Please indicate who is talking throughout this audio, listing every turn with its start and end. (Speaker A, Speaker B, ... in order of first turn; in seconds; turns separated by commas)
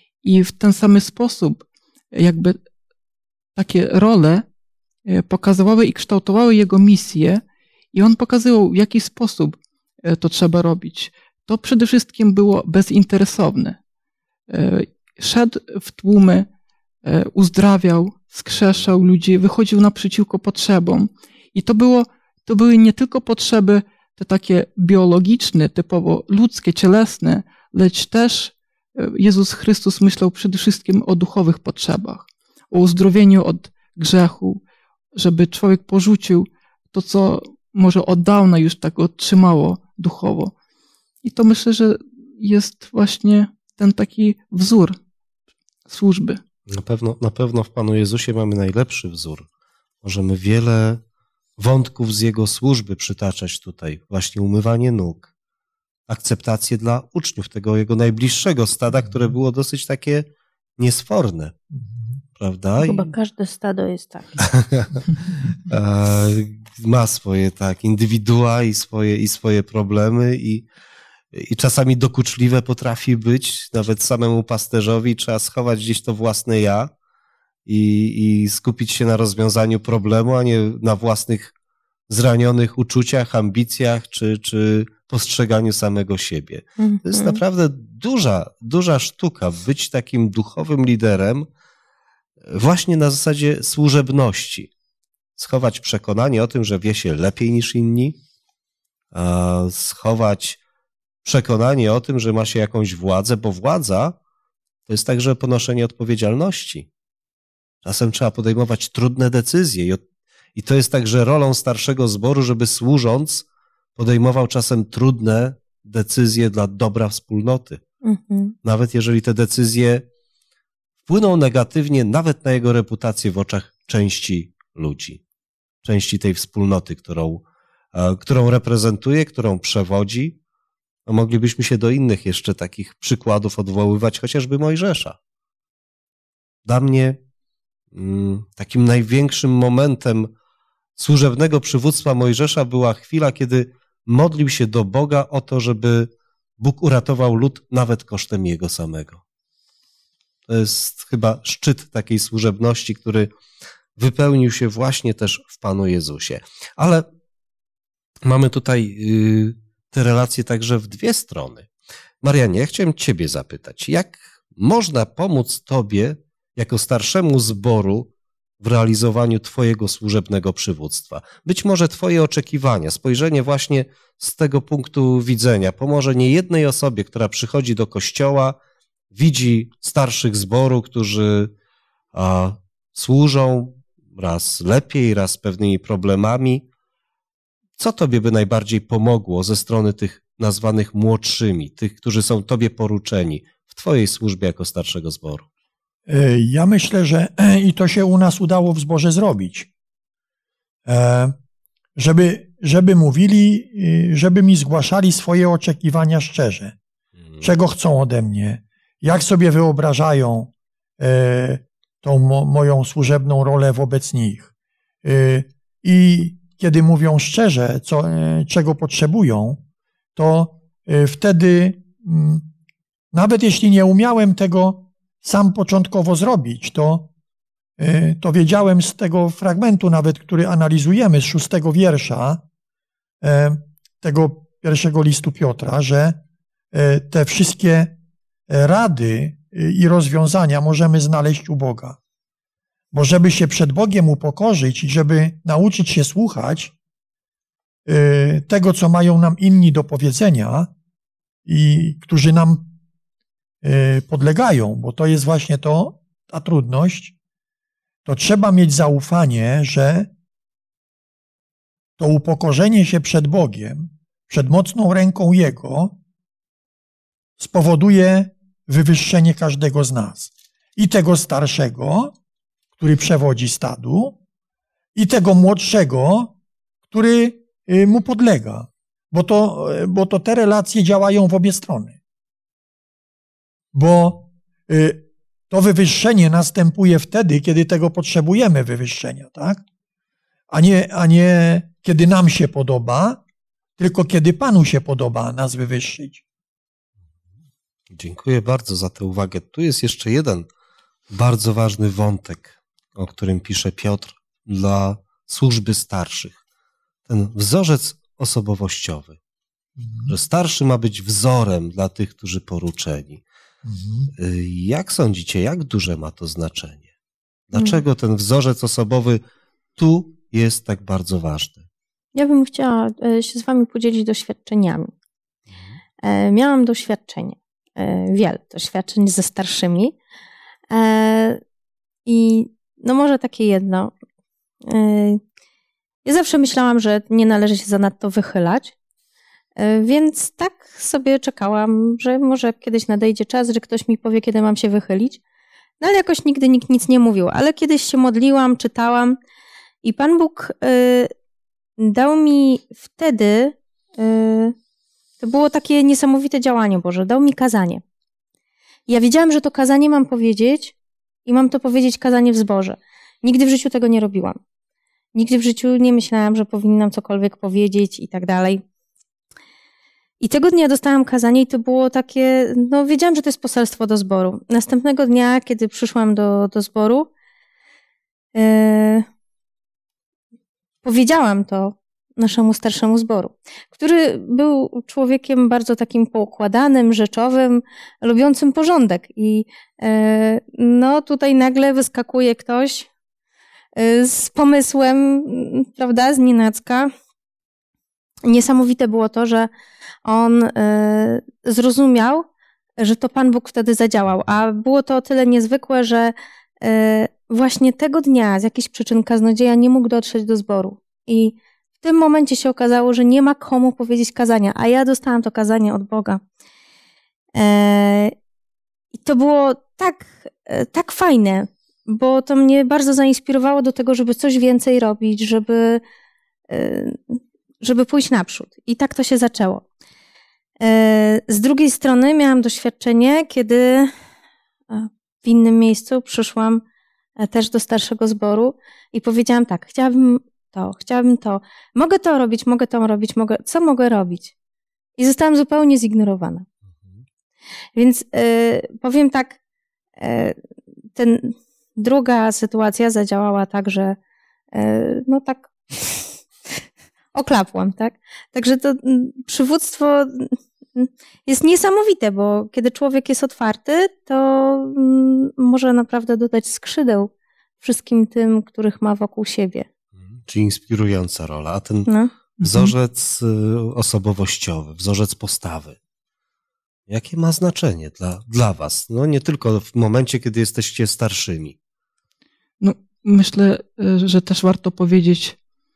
Speaker A: 0.2-2.6, Speaker A: 3.5-4.4, Speaker A: 5.1-7.4, Speaker A: 7.9-13.8, Speaker A: 14.5-16.5, Speaker A: 17.0-34.6, Speaker A: 35.1-40.5, Speaker A: 41.2-45.0, Speaker A: 45.9-46.4, Speaker B: 46.7-49.5, Speaker B: 50.0-51.0, Speaker B: 51.6-55.3, Speaker B: 56.1-60.2, Speaker B: 60.8-61.5, Speaker B: 62.4-63.1, Speaker C: 62.8-64.3, Speaker B: 64.4-70.6, Speaker B: 71.3-76.9, Speaker B: 77.7-81.5, Speaker B: 82.1-91.5, Speaker C: 86.8-87.4, Speaker B: 92.5-94.7, Speaker B: 95.4-98.2, Speaker B: 99.1-100.6, Speaker B: 101.2-104.2, Speaker B: 104.9-106.9, Speaker B: 107.8-110.0, Speaker B: 110.5-113.4, Speaker B: 114.0-117.8, Speaker C: 118.0-118.5, Speaker B: 118.6-120.0, Speaker B: 121.0-125.2, Speaker B: 125.8-130.3, Speaker B: 131.1-135.2, Speaker B: 136.6-137.2, Speaker B: 137.9-140.3, Speaker B: 140.9-149.2, Speaker B: 150.5-153.3, Speaker B: 154.0-157.0, Speaker B: 158.2-161.7, Speaker B: 162.2-178.6, Speaker B: 179.1-181.5, Speaker B: 182.1-186.6, Speaker B: 187.8-195.4, Speaker D: 196.1-199.7, Speaker D: 200.8-201.3, Speaker D: 201.9-206.8, Speaker D: 207.4-214.5, Speaker D: 215.0-219.6, Speaker D: 220.2-222.4, Speaker D: 223.1-227.1, Speaker D: 227.8-232.4, Speaker D: 233.2-236.2, Speaker D: 236.7-237.9, Speaker D: 238.5-242.0, Speaker D: 242.9-246.7, Speaker D: 247.8-250.7, Speaker D: 251.4-252.7, Speaker D: 253.6-257.1, Speaker D: 258.1-260.1, Speaker D: 262.0-265.9, Speaker D: 267.4-272.1, Speaker D: 272.8-274.2, Speaker D: 274.9-276.3, Speaker D: 276.9-282.0, Speaker D: 283.7-289.6, Speaker D: 290.5-293.2, Speaker D: 293.8-296.2, Speaker B: 297.9-300.5, Speaker B: 301.1-306.4, Speaker B: 307.1-309.2, Speaker D: 309.8-310.1, Speaker B: 310.1-313.2, Speaker D: 313.6-314.1, Speaker B: 314.1-316.9, Speaker B: 317.5-319.2, Speaker B: 319.8-321.6, Speaker C: 322.1-324.9, Speaker C: 326.0-329.9, Speaker C: 330.7-331.4, Speaker C: 332.1-333.9, Speaker C: 334.7-335.2, Speaker C: 336.0-338.7, Speaker C: 339.6-345.2, Speaker C: 345.8-349.2, Speaker C: 349.8-351.1, Speaker C: 351.8-354.5, Speaker C: 355.2-357.8, Speaker C: 358.9-360.7, Speaker C: 361.2-364.4, Speaker C: 365.1-368.6, Speaker C: 370.2-377.1, Speaker C: 378.3-379.1, Speaker C: 380.8-392.9, Speaker C: 393.8-396.9, Speaker C: 398.2-399.5, Speaker C: 400.0-402.2, Speaker C: 402.8-416.2, Speaker C: 417.3-418.1, Speaker C: 418.9-425.8, Speaker C: 426.5-429.6, Speaker C: 430.6-433.9, Speaker C: 434.7-436.6, Speaker C: 437.2-444.3, Speaker C: 445.0-446.4, Speaker C: 447.8-449.4, Speaker C: 450.0-450.4, Speaker C: 450.9-454.0, Speaker C: 454.5-456.1, Speaker C: 457.1-467.1, Speaker C: 467.6-469.7, Speaker B: 470.2-471.9, Speaker C: 471.9-472.1, Speaker A: 472.4-472.7, Speaker B: 472.4-475.8, Speaker B: 476.9-481.6, Speaker A: 482.6-485.4